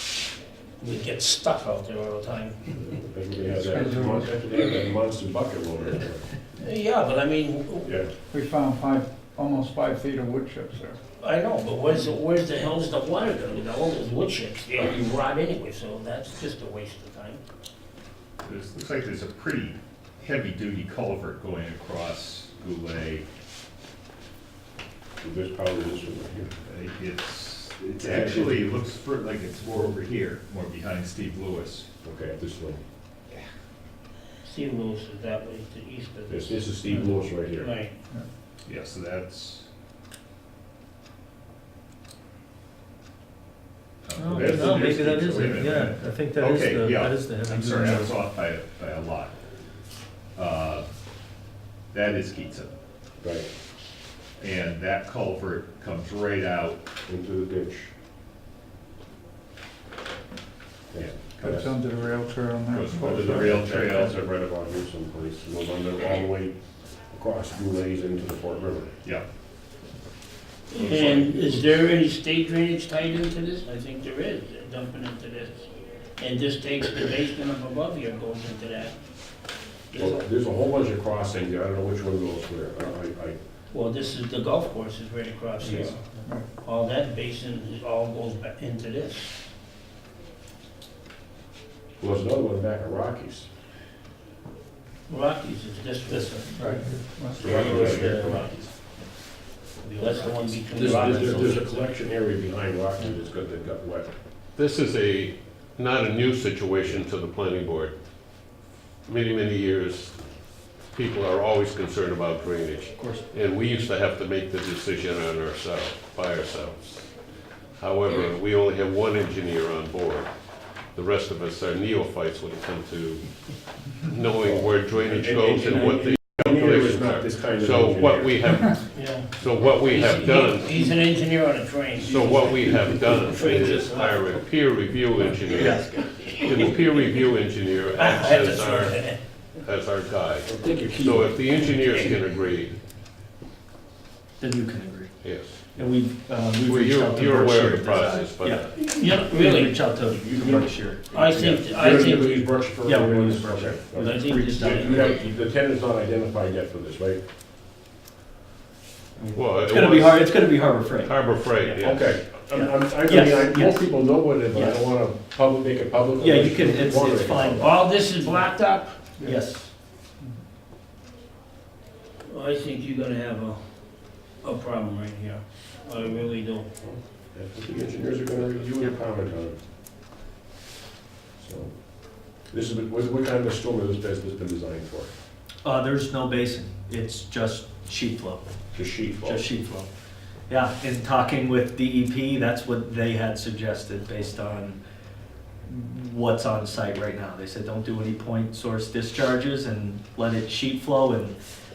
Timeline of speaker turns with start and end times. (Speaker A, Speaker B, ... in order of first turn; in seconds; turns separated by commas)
Speaker A: 0.8-3.0, Speaker B: 2.8-6.3, Speaker C: 3.5-4.6, Speaker A: 6.6-8.0, Speaker C: 8.3-11.0, Speaker A: 11.2-17.4, Speaker D: 18.4-23.2, Speaker B: 25.2-26.5, Speaker D: 26.6-31.9, Speaker B: 28.0-28.6, Speaker B: 32.0-32.8, Speaker A: 34.4-36.6, Speaker B: 36.3-37.7, Speaker A: 37.6-38.0, Speaker D: 38.6-39.7, Speaker D: 44.1-49.3, Speaker E: 44.2-48.1, Speaker B: 44.3-45.6, Speaker D: 50.4-50.9, Speaker D: 51.9-52.7, Speaker B: 53.2-53.5, Speaker D: 54.4-56.8, Speaker B: 57.1-57.9, Speaker B: 60.9-61.3, Speaker D: 61.0-61.8, Speaker C: 61.4-63.6, Speaker D: 62.7-64.2, Speaker B: 63.0-66.5, Speaker B: 67.1-68.9, Speaker A: 70.7-79.0, Speaker B: 70.8-71.8, Speaker A: 79.9-80.2, Speaker B: 80.0-83.4, Speaker A: 83.7-86.0, Speaker C: 86.1-86.5, Speaker A: 86.5-89.3, Speaker B: 92.0-93.5, Speaker A: 95.1-96.8, Speaker E: 96.1-96.8, Speaker C: 96.4-97.6, Speaker E: 97.4-99.1, Speaker B: 97.4-98.4, Speaker E: 99.8-101.5, Speaker A: 100.0-101.8, Speaker B: 100.7-104.1, Speaker F: 104.6-107.9, Speaker F: 109.0-110.2, Speaker F: 110.9-117.1, Speaker E: 113.0-113.3, Speaker F: 117.8-120.3, Speaker F: 120.9-123.3, Speaker F: 124.0-131.1, Speaker B: 124.3-128.6, Speaker A: 128.9-134.4, Speaker F: 131.9-139.0, Speaker A: 135.5-137.3, Speaker E: 135.6-136.3, Speaker A: 137.9-139.2, Speaker F: 139.6-142.8, Speaker B: 140.4-141.3, Speaker A: 141.9-142.3, Speaker E: 144.4-145.2, Speaker F: 145.2-145.5, Speaker E: 145.8-151.1, Speaker F: 146.6-148.7, Speaker A: 148.7-149.8, Speaker B: 150.1-157.2, Speaker A: 151.1-152.4, Speaker E: 152.8-155.1, Speaker A: 153.9-155.2, Speaker E: 159.2-161.8, Speaker F: 159.3-162.2, Speaker B: 161.8-167.8, Speaker E: 162.5-163.9, Speaker E: 164.5-164.9, Speaker E: 166.2-167.7, Speaker A: 167.6-169.0, Speaker E: 169.2-169.7, Speaker A: 172.2-173.6, Speaker A: 174.4-176.7, Speaker B: 176.8-179.6, Speaker B: 181.4-181.7, Speaker B: 182.5-185.1, Speaker E: 185.6-188.5, Speaker B: 188.7-189.5, Speaker E: 189.2-189.9, Speaker E: 190.5-194.8, Speaker E: 195.7-201.4